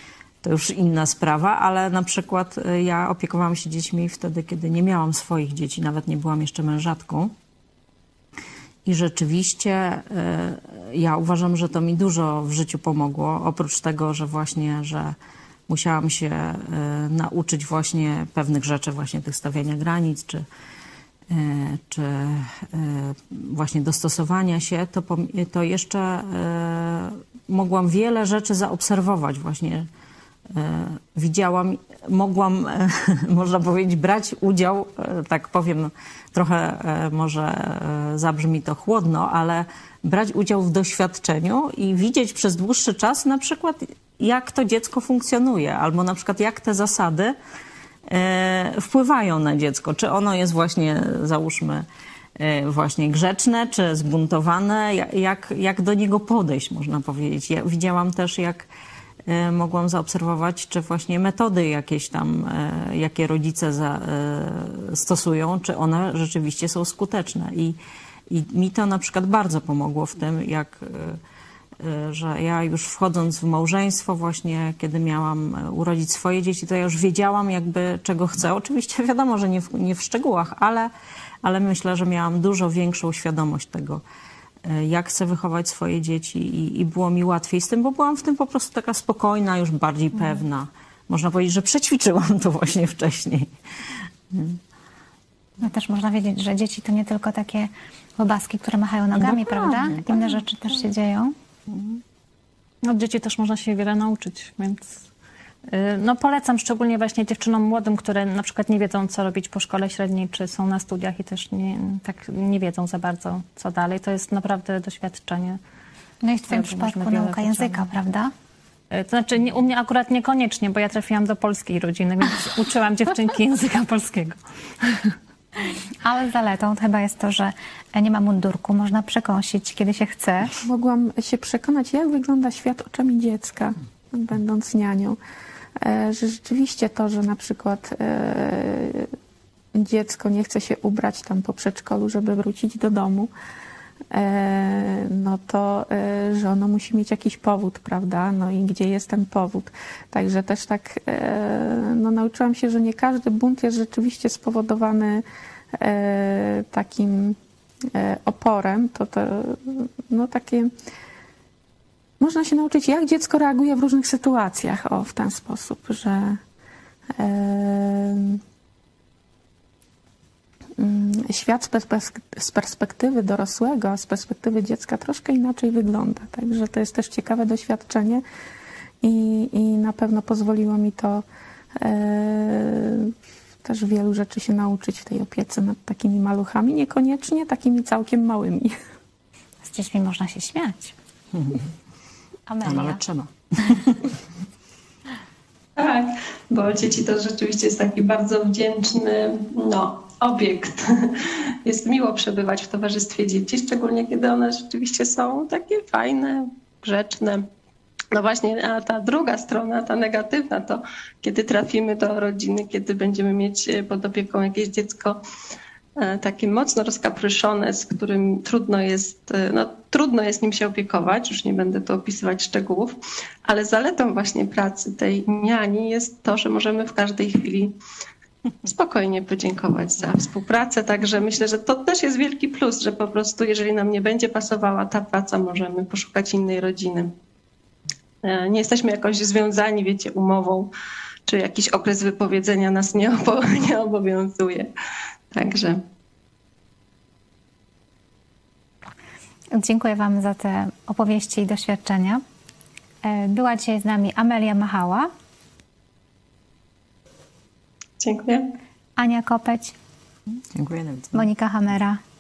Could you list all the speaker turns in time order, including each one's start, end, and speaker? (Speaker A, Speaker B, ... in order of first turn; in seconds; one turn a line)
Speaker A: 0.4-7.3
Speaker A: 8.9-15.2
Speaker A: 15.7-20.4
Speaker A: 21.3-29.9
Speaker A: 30.5-47.4
Speaker A: 48.1-51.9
Speaker A: 52.4-58.7
Speaker A: 59.3-67.8
Speaker A: 68.3-71.2
Speaker A: 71.8-80.9
Speaker A: 81.4-84.0
Speaker A: 84.6-93.5
Speaker A: 94.3-94.6
Speaker B: 95.6-101.3
Speaker A: 99.2-100.3
Speaker A: 101.7-102.0
Speaker C: 102.8-105.0
Speaker C: 105.7-115.6
Speaker B: 116.2-118.3
Speaker C: 116.5-117.9
Speaker C: 118.9-125.2
Speaker B: 126.0-130.6
Speaker D: 130.6-135.2
Speaker D: 135.8-139.1
Speaker D: 139.7-143.3
Speaker D: 144.1-155.2
Speaker D: 155.8-157.4
Speaker D: 157.9-160.7
Speaker D: 162.2-166.4
Speaker D: 167.2-168.4
Speaker D: 170.8-178.2
Speaker D: 179.0-181.2
Speaker D: 181.8-188.8
Speaker B: 189.6-191.0
Speaker A: 191.3-191.6
Speaker B: 192.5-193.0
Speaker A: 192.6-194.0
Speaker E: 195.8-207.4
Speaker E: 208.1-215.2
Speaker E: 216.0-227.7
Speaker E: 228.7-237.1
Speaker E: 238.2-240.7
Speaker E: 241.3-244.7
Speaker E: 245.3-245.8
Speaker B: 249.5-252.2
Speaker B: 253.0-255.1
Speaker E: 258.0-258.5
Speaker B: 259.0-259.8
Speaker A: 260.5-261.3
Speaker B: 261.1-262.0